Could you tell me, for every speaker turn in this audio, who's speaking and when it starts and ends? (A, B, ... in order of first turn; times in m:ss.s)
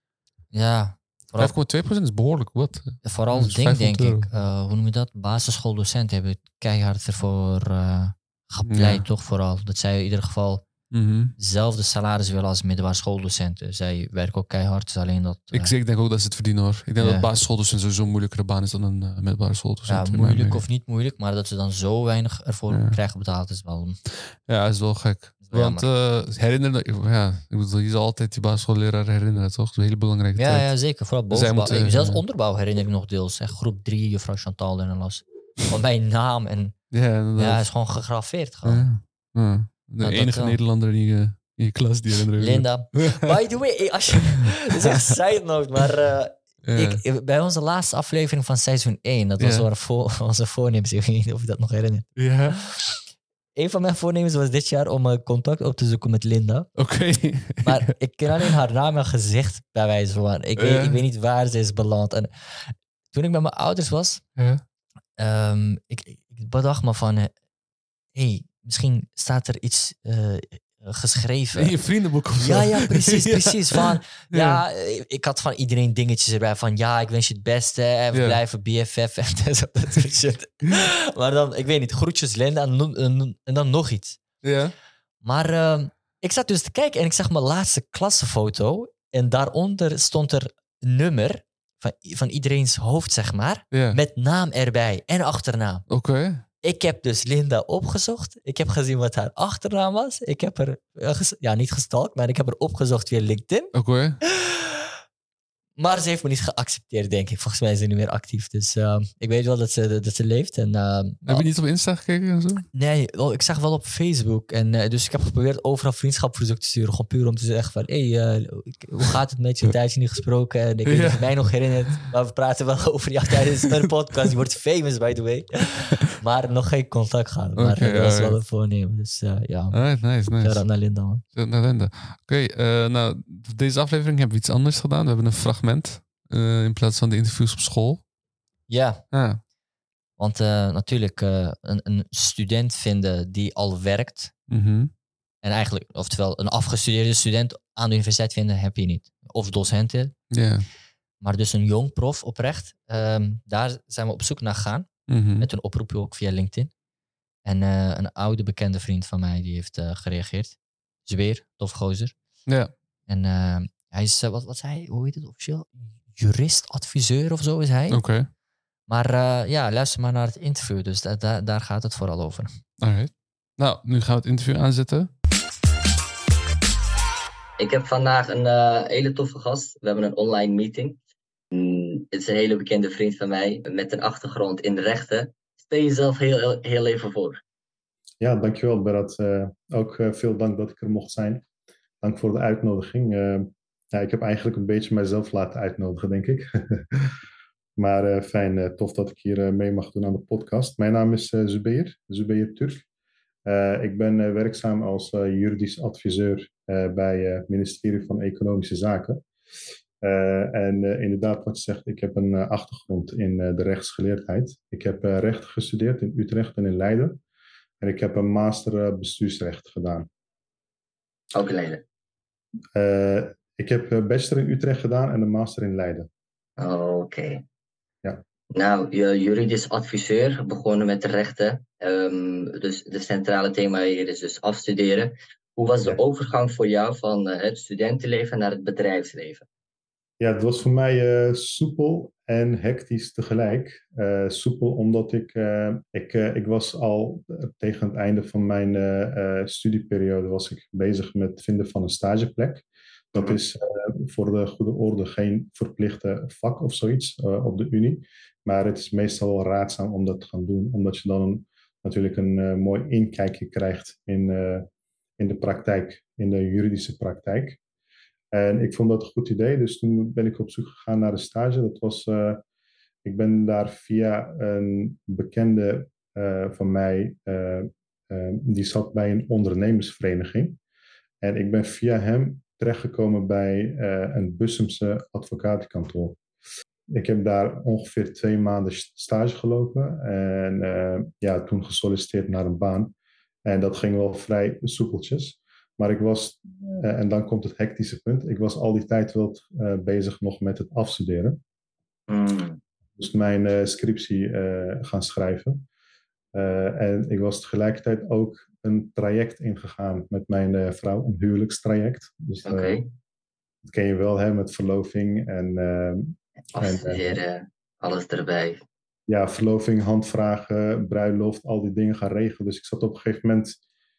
0:00.5-0:01.5 A
0:01.4-0:04.3 B
0:03.0-0:10.7 A
0:08.7-0:09.0 B
0:10.9-0:11.4 B
0:11.4-0:15.7 A
0:15.5-0:20.6 B
0:17.0-0:17.3 A
0:19.9-0:24.0 A
0:22.7-0:23.0 B
0:24.5-0:30.7 B
0:25.5-0:25.8 A
0:30.4-0:36.8 A
0:31.3-0:32.2 B
0:36.9-0:37.6 B
0:37.4-0:38.9 A
0:38.6-0:43.3 B
0:40.0-0:40.6 A
0:42.4-0:52.8 A
0:44.1-0:45.2 B
0:46.6-0:47.0 B
0:49.4-0:49.7 B
0:52.2-0:52.6 B
0:53.6-0:56.7 A
0:56.8-0:58.5 B
0:57.6-1:04.2 A
1:00.6-1:01.0 B
1:04.4-1:04.6 B
1:05.2-1:07.3 A
1:08.1-1:11.8 A
1:11.6-1:14.6 B
1:12.4-1:24.2 A
1:18.1-1:18.4 B
1:24.4-1:24.7 B
1:25.2-1:35.8 A
1:33.7-1:34.0 B
1:35.9-1:36.4 B
1:36.6-1:43.7 A
1:43.7-1:44.2 B
1:44.3-1:44.8 A
1:45.8-1:51.5 A
1:51.3-1:52.7 B
1:52.7-2:09.8 A
2:00.9-2:01.4 B
2:07.6-2:08.4 B
2:09.7-2:10.6 B
2:10.4-2:11.2 A
2:11.4-2:18.0 B
2:18.7-2:19.0 A
2:19.1-2:19.4 B
2:20.2-2:24.3 A
2:24.5-2:24.9 B
2:25.4-2:30.1 A
2:30.3-2:30.7 B
2:31.2-2:34.9 A
2:35.1-2:35.5 B
2:35.4-2:36.7 A
2:37.4-2:42.1 A
2:43.1-2:48.0 A
2:47.9-2:48.3 B
2:48.9-2:52.5 A
2:52.8-2:55.1 B
2:57.6-3:01.0 C
3:01.5-3:07.4 C
3:08.2-3:11.4 D
3:12.0-3:17.2 D
3:17.8-3:22.8 D
3:23.5-3:29.2 D
3:30.0-3:37.2 D
3:37.8-3:40.1 D
3:41.3-3:41.8 C
3:42.8-3:46.1 D
3:46.6-3:47.4 C
3:48.5-3:59.4 C
4:00.2-4:24.7 D
4:25.2-4:27.6 D
4:28.3-4:32.4 D
4:33.0-4:40.6 D
4:41.2-4:46.2 D
4:46.9-4:52.9 D
4:53.5-5:01.4 D
5:02.1-5:02.6 C
5:03.0-5:05.6 D
5:06.3-5:12.8 D
5:12.4-5:12.9 C
5:13.6-5:17.2 D
5:16.6-5:18.6 C
5:19.1-5:23.6 D